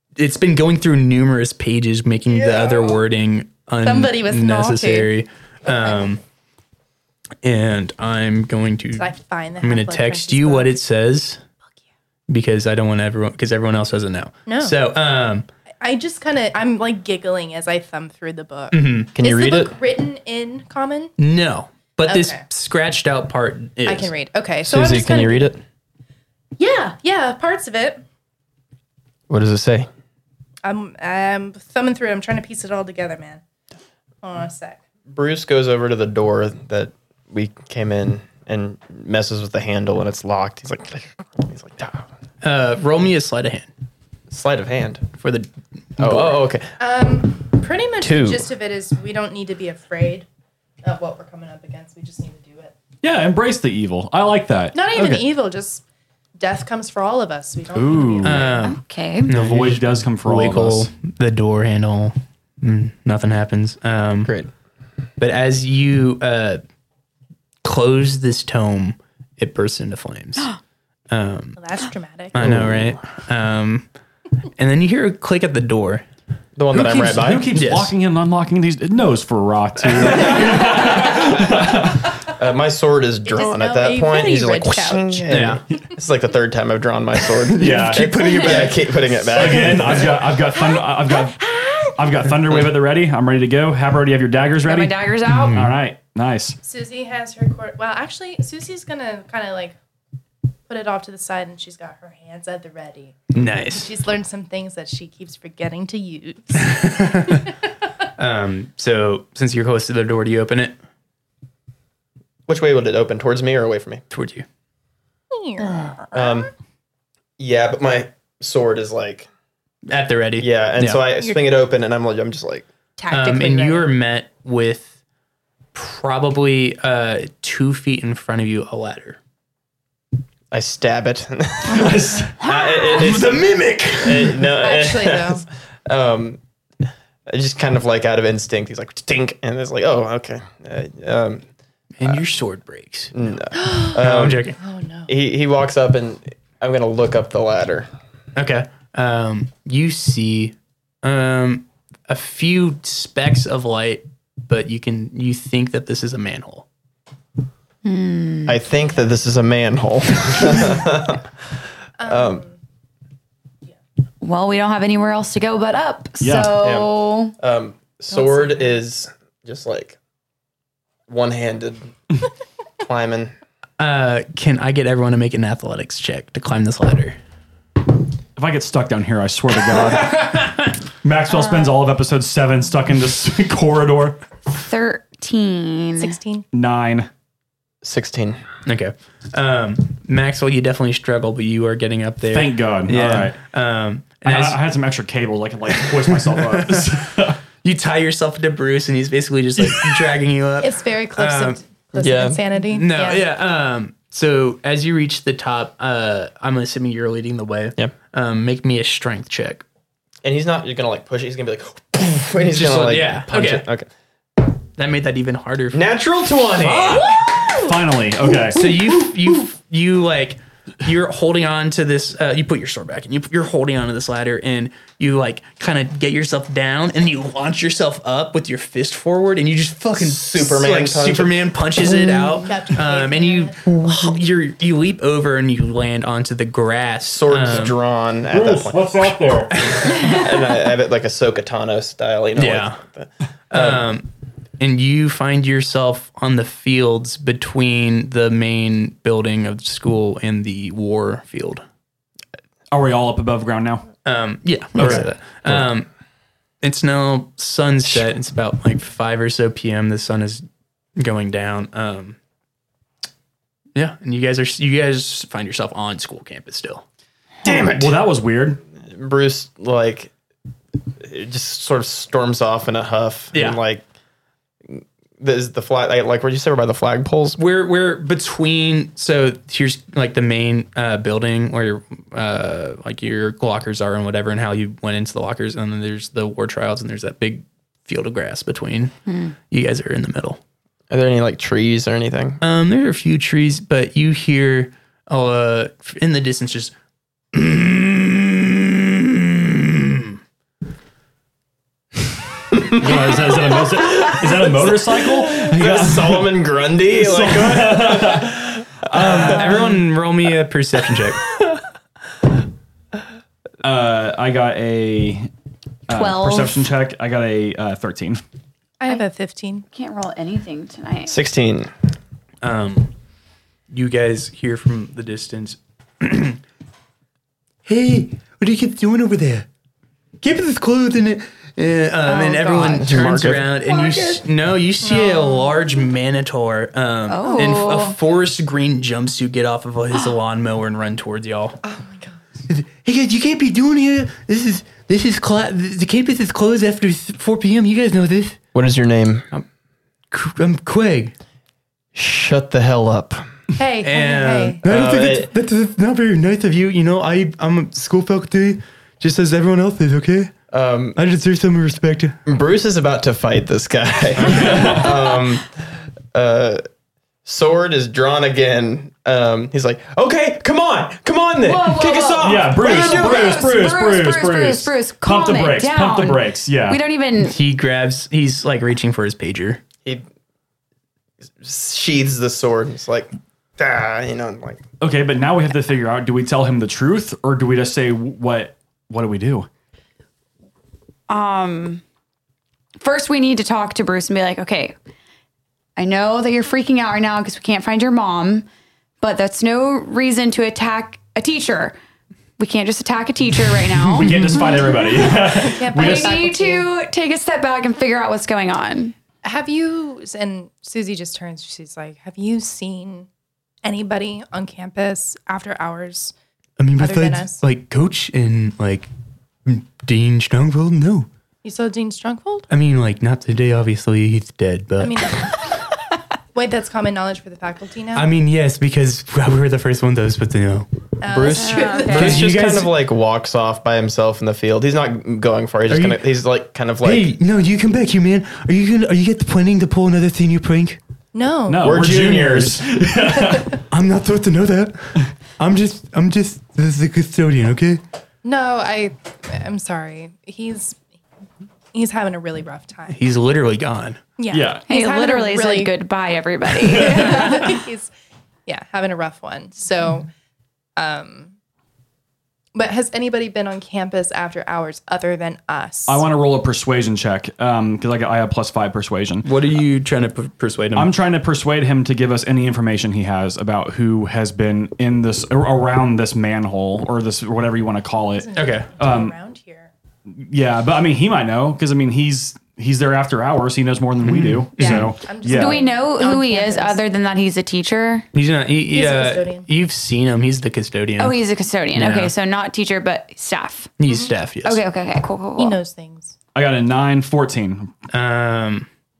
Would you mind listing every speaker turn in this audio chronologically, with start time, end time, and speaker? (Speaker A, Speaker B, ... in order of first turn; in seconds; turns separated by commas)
Speaker A: 0.2-6.2, Speaker B: 2.3-3.0, Speaker C: 3.8-5.1, Speaker A: 7.4-11.4, Speaker C: 9.0-10.7, Speaker A: 12.3-15.5, Speaker C: 14.5-14.8, Speaker C: 15.8-21.1, Speaker A: 18.7-19.1, Speaker B: 19.1-19.7, Speaker A: 21.2-24.1, Speaker C: 22.1-22.4, Speaker C: 23.9-25.6, Speaker B: 24.6-25.6, Speaker C: 26.6-28.0, Speaker B: 29.3-29.9, Speaker C: 30.6-33.4, Speaker C: 34.2-34.8, Speaker B: 35.1-42.1, Speaker A: 42.4-43.7, Speaker B: 44.3-45.1, Speaker A: 45.2-46.4, Speaker B: 46.0-46.7, Speaker C: 46.8-50.3, Speaker B: 48.0-48.5, Speaker C: 50.8-52.7, Speaker D: 53.0-55.2, Speaker C: 54.7-55.8, Speaker C: 56.4-58.7, Speaker D: 57.7-58.5, Speaker A: 58.2-64.3, Speaker E: 58.6-59.3, Speaker D: 59.3-60.9, Speaker B: 64.3-64.5, Speaker A: 65.2-66.6, Speaker A: 67.6-70.5, Speaker A: 71.1-71.6, Speaker C: 71.6-72.5, Speaker A: 72.3-73.9, Speaker B: 72.4-73.0, Speaker A: 74.6-76.1, Speaker B: 76.6-77.5, Speaker D: 76.7-82.2, Speaker A: 77.5-77.9, Speaker B: 82.4-90.2, Speaker C: 83.3-85.4, Speaker A: 85.3-85.6, Speaker D: 87.5-88.7, Speaker A: 87.7-88.8, Speaker D: 89.3-91.4, Speaker C: 90.2-92.1, Speaker D: 92.0-96.6, Speaker E: 94.6-95.6, Speaker A: 95.3-95.8, Speaker C: 96.6-99.8, Speaker C: 100.7-107.0, Speaker A: 103.3-103.9, Speaker A: 106.6-107.4, Speaker A: 108.2-110.8, Speaker B: 112.5-114.0, Speaker A: 114.1-114.5, Speaker C: 115.3-115.9, Speaker B: 116.1-116.5, Speaker B: 117.4-119.3, Speaker A: 119.9-121.1, Speaker B: 120.4-122.7, Speaker C: 121.2-121.5, Speaker C: 123.0-123.9, Speaker A: 123.1-124.9, Speaker A: 125.7-129.2, Speaker B: 130.5-136.4, Speaker D: 131.8-132.3, Speaker A: 132.5-134.5, Speaker E: 132.6-133.1, Speaker C: 134.6-135.5, Speaker B: 137.3-141.4, Speaker A: 142.0-143.1, Speaker B: 143.1-144.4, Speaker C: 143.6-144.0, Speaker A: 143.9-144.6, Speaker C: 144.6-145.1, Speaker B: 145.1-147.9, Speaker A: 148.3-156.7, Speaker E: 157.8-158.6, Speaker B: 158.5-161.3, Speaker C: 162.0-162.6, Speaker B: 162.0-162.4, Speaker E: 164.2-167.3, Speaker D: 166.2-166.6, Speaker B: 166.6-170.0, Speaker C: 168.1-168.8, Speaker B: 171.1-171.9, Speaker B: 172.8-173.3, Speaker A: 173.8-177.2, Speaker D: 178.4-184.2, Speaker A: 179.8-180.7, Speaker E: 181.3-181.8, Speaker E: 184.5-186.2, Speaker C: 186.0-186.5, Speaker D: 186.5-187.1, Speaker B: 187.8-188.4, Speaker A: 188.7-194.6, Speaker D: 192.3-193.4, Speaker D: 194.2-197.4, Speaker A: 195.9-197.1, Speaker A: 197.6-201.6, Speaker D: 199.6-200.1, Speaker C: 200.6-203.2, Speaker B: 201.9-202.4, Speaker A: 202.7-209.6, Speaker B: 210.2-213.9, Speaker A: 212.4-213.7, Speaker A: 214.8-216.0, Speaker B: 215.7-217.2, Speaker D: 216.6-218.8, Speaker A: 218.5-237.8, Speaker B: 230.0-232.3, Speaker C: 232.4-233.6, Speaker B: 237.1-239.2, Speaker D: 238.3-239.6, Speaker A: 239.6-239.9, Speaker B: 239.8-243.8, Speaker A: 242.4-242.8, Speaker A: 243.5-251.6, Speaker D: 252.7-253.9, Speaker A: 254.1-255.9, Speaker B: 254.8-255.6, Speaker A: 256.6-262.2, Speaker A: 263.8-266.9, Speaker B: 267.4-268.0, Speaker D: 267.4-268.6, Speaker B: 268.8-270.1, Speaker B: 271.0-273.8, Speaker A: 273.3-273.6, Speaker B: 274.7-277.4, Speaker A: 277.4-289.0, Speaker E: 289.1-289.3, Speaker A: 289.5-290.4, Speaker B: 290.9-292.4, Speaker A: 292.4-296.7, Speaker A: 297.3-300.2, Speaker B: 302.5-309.3, Speaker D: 302.7-306.3, Speaker D: 306.9-309.8, Speaker A: 308.9-311.2, Speaker D: 313.6-315.3, Speaker D: 315.9-318.2, Speaker E: 315.9-316.6, Speaker C: 318.8-319.6, Speaker E: 319.7-321.2, Speaker B: 321.1-321.7, Speaker A: 322.4-322.9, Speaker A: 323.7-326.4, Speaker A: 327.7-329.5, Speaker A: 330.2-341.6, Speaker C: 332.1-332.8, Speaker E: 332.4-332.7, Speaker B: 332.6-333.5, Speaker E: 333.8-334.1, Speaker C: 334.8-335.5, Speaker E: 337.1-338.0, Speaker C: 341.6-342.2, Speaker A: 342.5-348.4, Speaker B: 348.5-349.3, Speaker A: 350.1-351.1, Speaker B: 351.9-353.2, Speaker C: 353.6-354.6, Speaker A: 353.8-360.3, Speaker B: 354.6-355.3, Speaker B: 360.5-361.0, Speaker A: 360.9-362.2, Speaker B: 362.3-365.6, Speaker A: 364.2-364.8, Speaker D: 364.3-364.9, Speaker B: 366.1-366.6, Speaker B: 367.2-373.5, Speaker E: 371.4-377.4, Speaker D: 372.1-376.8, Speaker A: 377.2-379.6, Speaker B: 381.4-384.6, Speaker D: 384.8-389.5, Speaker E: 391.1-391.8, Speaker E: 392.8-394.8, Speaker E: 395.8-398.5, Speaker E: 399.0-401.8, Speaker E: 402.4-408.9, Speaker D: 403.9-406.2, Speaker A: 404.0-404.4, Speaker C: 405.2-406.7, Speaker C: 409.2-413.1, Speaker C: 413.6-416.1, Speaker A: 416.6-418.9, Speaker C: 416.8-417.4, Speaker A: 419.5-421.1, Speaker C: 421.4-422.5, Speaker A: 422.5-425.2, Speaker C: 424.8-425.5, Speaker C: 426.3-428.1, Speaker A: 427.9-430.7, Speaker C: 431.0-432.3, Speaker B: 431.1-437.1, Speaker E: 431.2-432.2, Speaker A: 431.9-432.7, Speaker A: 435.7-436.1, Speaker A: 436.8-440.8, Speaker C: 441.1-441.8, Speaker D: 441.5-443.6, Speaker B: 441.6-442.7, Speaker A: 443.7-447.8, Speaker C: 448.2-450.8, Speaker C: 451.7-453.0, Speaker A: 452.9-454.0, Speaker C: 454.2-455.7, Speaker D: 454.3-454.7, Speaker E: 454.7-457.6, Speaker D: 456.6-457.1, Speaker C: 456.7-457.9, Speaker C: 458.5-460.1, Speaker C: 460.8-461.3, Speaker C: 462.6-466.0, Speaker D: 465.9-469.3, Speaker A: 469.2-470.9, Speaker D: 470.8-479.1, Speaker C: 478.1-479.7, Speaker A: 478.4-478.7, Speaker D: 480.1-485.6, Speaker A: 484.0-484.9, Speaker E: 484.6-488.1, Speaker C: 485.0-486.8, Speaker A: 488.1-491.1, Speaker C: 488.7-489.5, Speaker E: 491.0-493.8, Speaker A: 491.7-492.1, Speaker A: 493.8-494.6, Speaker E: 494.4-495.6, Speaker C: 495.4-496.2, Speaker D: 496.4-497.7, Speaker A: 497.9-498.7